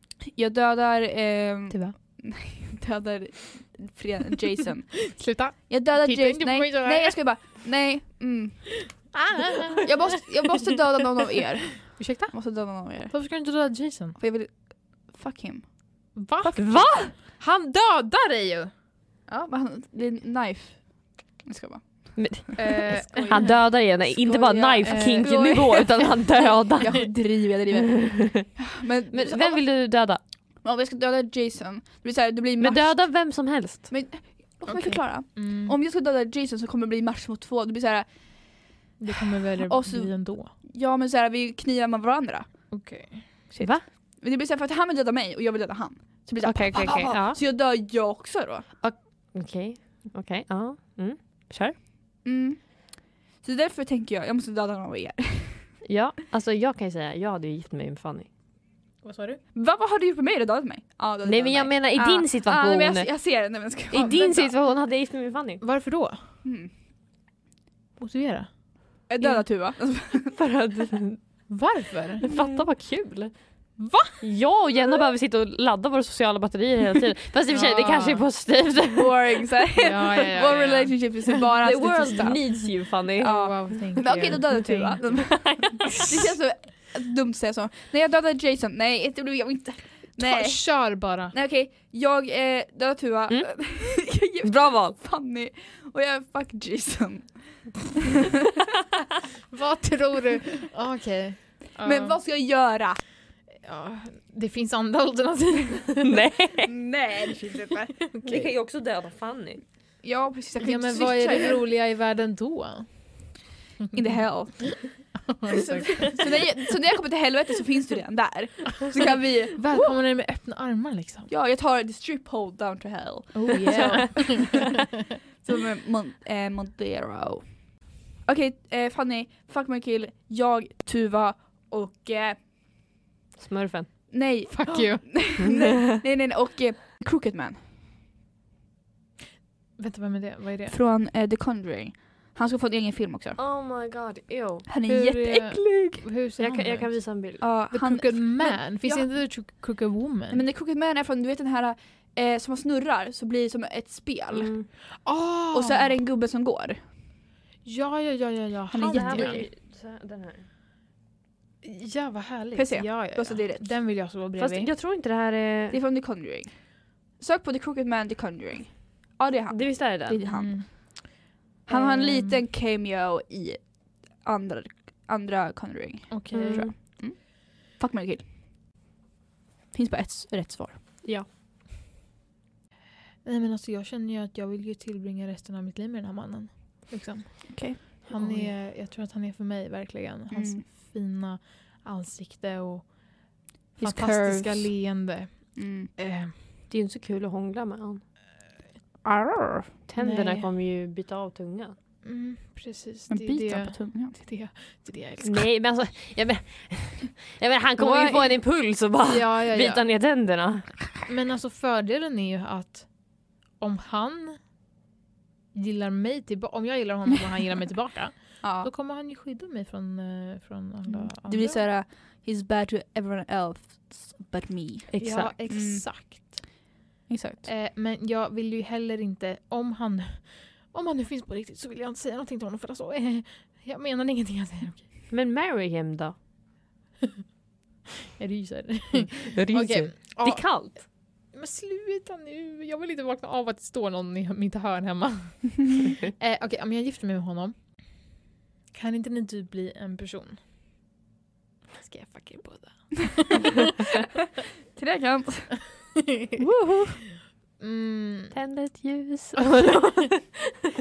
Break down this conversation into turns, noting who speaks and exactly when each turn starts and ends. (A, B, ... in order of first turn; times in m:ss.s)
0:00.3-0:09.1 A
0:01.7-0:01.9 B
0:05.2-0:07.3 B
0:09.1-0:10.2 B
0:09.8-0:13.2 A
0:12.0-0:14.2 B
0:14.2-0:17.1 A
0:16.1-0:18.7 B
0:16.6-0:17.1 C
0:19.3-0:29.7 A
0:22.2-0:27.2 C
0:22.6-0:23.6 B
0:24.8-0:25.5 B
0:28.0-0:30.2 C
0:30.6-0:38.7 A
0:32.6-0:33.9 C
0:34.7-0:35.8 B
0:39.0-0:40.5 B
0:39.6-0:42.7 A
0:42.7-0:43.3 B
0:43.5-0:48.7 A
0:43.6-0:43.8 C
0:46.4-0:47.4 C
0:48.8-0:51.8 C
0:52.2-0:55.8 A
0:55.8-0:58.3 C
0:59.0-0:59.4 B
0:59.5-1:04.2 A
1:01.2-1:03.1 C
1:03.9-1:05.6 C
1:03.9-1:04.5 B
1:05.6-1:06.3 B
1:06.4-1:06.7 A
1:08.0-1:08.5 B
1:09.0-1:09.4 B
1:09.1-1:10.4 A
1:10.3-1:11.5 C
1:11.5-1:12.2 B
1:12.2-1:19.1 C
1:13.8-1:14.2 B
1:17.5-1:18.2 B
1:18.9-1:22.4 A
1:19.8-1:20.9 B
1:21.6-1:26.1 C
1:21.9-1:25.2 B
1:23.2-1:30.8 A
1:30.2-1:31.3 B
1:31.3-1:37.9 A
1:33.3-1:33.5 C
1:34.4-1:35.0 C
1:39.5-1:42.2 B
1:41.8-1:43.0 A
1:43.6-1:46.1 B
1:46.0-1:46.7 C
1:46.7-1:47.9 A
1:48.0-1:48.5 B
1:48.2-1:49.6 C
1:50.0-1:51.6 A
1:50.6-1:53.2 B
1:53.9-1:59.9 A
1:55.2-1:56.2 B
1:55.9-1:56.2 C
1:58.9-2:01.3 B
2:01.3-2:04.8 A
2:03.3-2:04.7 B
2:05.4-2:12.5 A
2:13.4-2:13.9 C
2:14.1-2:17.6 A
2:14.5-2:15.5 B
2:19.8-2:20.7 B
2:20.7-2:23.4 A
2:23.4-2:24.7 C
2:24.7-2:26.0 A
2:24.9-2:30.4 B
2:26.4-2:27.5 C
2:27.4-2:29.1 A
2:30.3-2:34.7 A
2:34.3-2:34.7 C
2:35.0-2:36.0 B
2:35.5-2:36.8 A
2:37.6-2:39.4 B
2:38.7-2:39.5 A
2:38.9-2:40.5 C
2:41.6-2:44.7 B
2:42.5-2:43.8 A
2:44.4-2:45.8 C
2:45.7-2:51.0 A
2:49.5-2:50.3 C
2:50.3-2:52.4 B
2:51.6-2:58.3 A
2:56.1-2:56.7 B
2:56.3-2:56.7 C
2:59.7-3:00.8 A
3:03.2-3:16.4 B
3:07.5-3:08.0 A
3:08.1-3:08.5 C
3:10.3-3:10.6 A
3:13.8-3:14.8 A
3:15.5-3:15.9 A
3:16.7-3:18.0 C
3:19.0-3:19.7 A
3:19.9-3:21.8 C
3:20.0-3:20.5 B
3:22.0-3:25.5 B
3:23.1-3:24.1 A
3:25.2-3:30.9 C
3:27.8-3:28.4 B
3:29.0-3:29.8 B
3:31.1-3:34.4 B
3:35.5-3:41.6 B
3:38.4-3:38.7 A
3:40.9-3:45.8 A
3:44.9-3:45.3 C
3:45.0-3:46.6 B
3:47.1-3:47.5 A
3:47.4-3:54.9 B
3:55.1-3:56.2 C
3:58.2-4:08.1 B
3:59.1-4:00.9 C
4:08.7-4:10.4 B
4:11.8-4:13.6 B
4:14.7-4:17.0 A
4:17.6-4:18.4 B
4:18.3-4:20.4 C